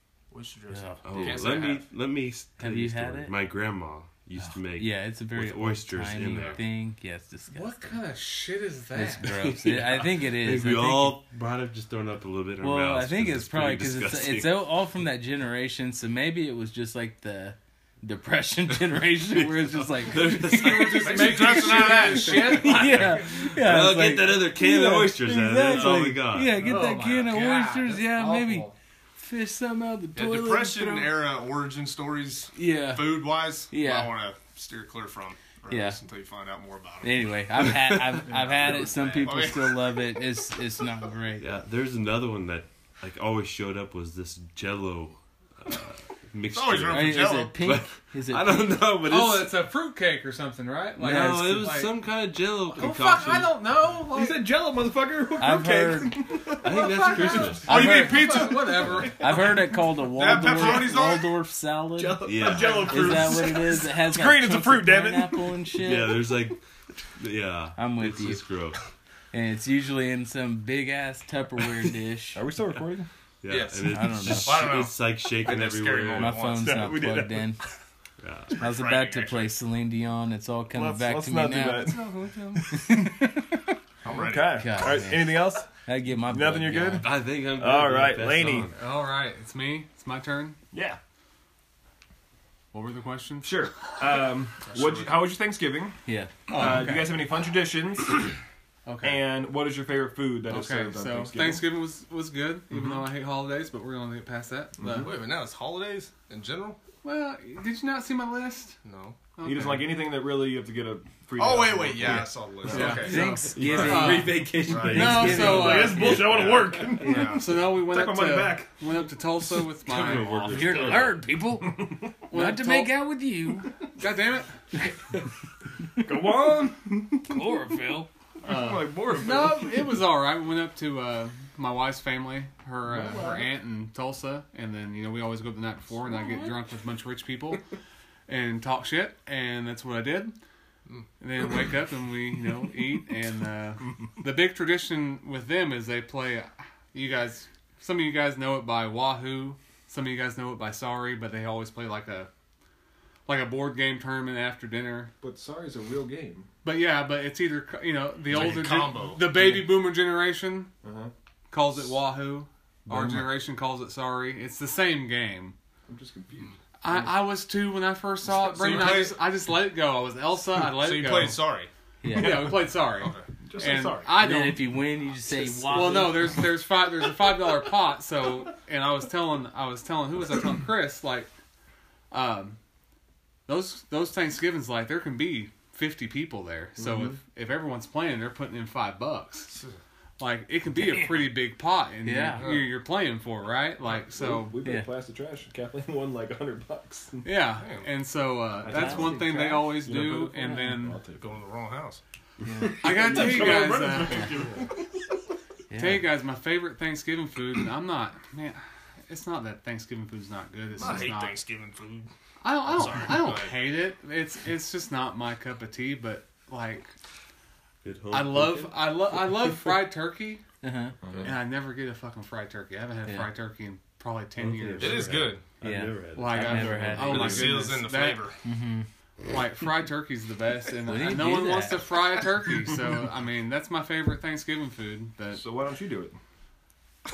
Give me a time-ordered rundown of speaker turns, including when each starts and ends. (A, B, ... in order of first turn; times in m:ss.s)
0:00.3-0:01.9 A
0:00.7-0:01.4 B
0:01.0-0:06.6 C
0:02.6-0:03.3 B
0:04.8-0:07.8 B
0:06.3-0:06.6 A
0:07.5-0:09.3 D
0:08.9-0:11.2 B
0:09.2-0:14.8 C
0:12.6-0:31.2 B
0:19.3-0:21.5 C
0:20.5-0:23.4 D
0:21.0-0:23.0 A
0:22.6-0:26.7 C
0:26.6-0:28.7 D
0:30.2-0:37.1 A
0:32.5-0:34.1 B
0:35.7-0:36.0 B
0:37.0-0:41.5 B
0:38.4-0:40.0 A
0:41.4-0:49.6 C
0:46.5-0:47.6 A
0:46.9-0:48.9 B
0:49.0-0:54.5 D
0:51.0-0:51.8 B
0:51.0-0:53.6 C
0:54.0-0:59.5 E
0:55.4-0:56.2 B
0:56.6-0:57.9 C
0:56.7-0:59.6 D
0:57.5-0:59.3 A
0:59.2-1:06.2 B
1:00.1-1:01.4 A
1:02.0-1:05.6 E
1:02.2-1:03.2 C
1:05.8-1:06.6 C
1:07.2-1:08.8 C
1:07.8-1:08.4 B
1:09.3-1:12.4 B
1:12.3-1:13.1 E
1:13.4-1:16.5 C
1:13.5-1:16.8 A
1:13.8-1:14.8 B
1:16.2-1:17.6 B
1:16.6-1:17.6 E
1:18.2-1:18.6 C
1:18.6-1:19.5 A
1:18.6-1:22.1 B
1:20.7-1:23.3 E
1:22.3-1:22.6 A
1:22.7-1:23.4 B
1:24.0-1:24.6 A
1:24.1-1:25.7 E
1:24.6-1:27.1 B
1:26.3-1:28.7 E
1:27.0-1:28.8 C
1:28.7-1:30.6 D
1:30.7-1:31.0 E
1:32.7-1:33.6 D
1:33.4-1:36.0 E
1:34.6-1:35.2 A
1:36.1-1:36.3 B
1:36.5-1:37.2 D
1:36.5-1:38.3 E
1:38.8-1:39.2 D
1:39.0-1:41.7 E
1:40.5-1:45.1 D
1:44.8-1:45.1 E
1:45.0-1:46.8 A
1:47.0-1:48.8 D
1:48.8-1:49.2 A
1:49.4-1:49.9 D
1:49.4-1:53.0 E
1:51.4-1:54.0 A
1:52.7-1:56.2 D
1:52.8-1:56.0 B
1:53.6-1:56.7 C
1:54.6-1:57.5 A
1:55.3-1:58.8 E
1:57.0-1:57.3 B
1:57.1-2:00.9 D
1:59.8-2:01.2 C
2:00.4-2:03.7 B
2:02.3-2:03.0 D
2:03.9-2:04.5 D
2:06.0-2:07.4 E
2:07.3-2:08.1 B
2:08.4-2:09.8 A
2:08.4-2:17.6 D
2:08.5-2:09.4 E
2:13.1-2:13.3 A
2:16.1-2:16.6 B
2:18.3-2:20.3 D
2:21.2-2:32.3 D
2:33.2-2:35.1 D
2:35.2-2:36.5 E
2:36.6-2:40.7 D
2:38.3-2:39.2 A
2:39.4-2:39.6 E
2:40.8-2:41.1 E
2:41.5-2:45.5 D
2:42.9-2:43.3 E
2:45.9-2:47.2 E
2:46.8-2:51.4 D
2:48.4-2:49.2 A
2:50.7-2:51.7 A
2:52.0-2:52.6 B
2:52.1-2:54.8 D
2:52.1-2:52.7 E
2:53.0-2:53.2 A
2:53.4-2:54.2 E
2:54.2-2:56.4 B
2:55.6-3:01.3 D
2:55.8-2:56.0 E
3:02.1-3:02.6 D
3:03.5-3:09.5 D
3:06.8-3:07.2 B
3:09.5-3:09.8 A
3:10.2-3:14.5 D
3:10.8-3:11.4 B
3:12.0-3:12.5 B
3:12.3-3:12.7 A
3:13.9-3:17.2 E
3:14.6-3:14.9 B
3:17.2-3:21.0 D
3:17.6-3:17.8 A
3:18.6-3:21.3 E
3:18.7-3:19.6 B
3:21.2-3:22.0 A
3:22.4-3:22.8 B
3:22.6-3:25.1 E
3:22.8-3:24.4 D
3:25.7-3:26.0 B
3:25.8-3:31.4 D
3:30.8-3:32.1 A
3:32.4-3:36.9 D
3:32.7-3:33.6 A
3:37.8-3:38.8 C
3:38.1-3:40.4 D
3:40.6-3:41.0 B
3:41.0-3:41.3 E
3:41.2-3:45.2 D
3:44.4-3:47.3 C
3:44.8-3:45.4 A
3:45.6-3:47.6 B
3:46.1-3:48.3 D
3:47.0-3:48.4 A
3:47.1-3:47.4 E
3:48.4-3:48.9 B
3:49.3-3:55.4 D
3:50.9-3:51.9 B
3:55.3-3:56.2 E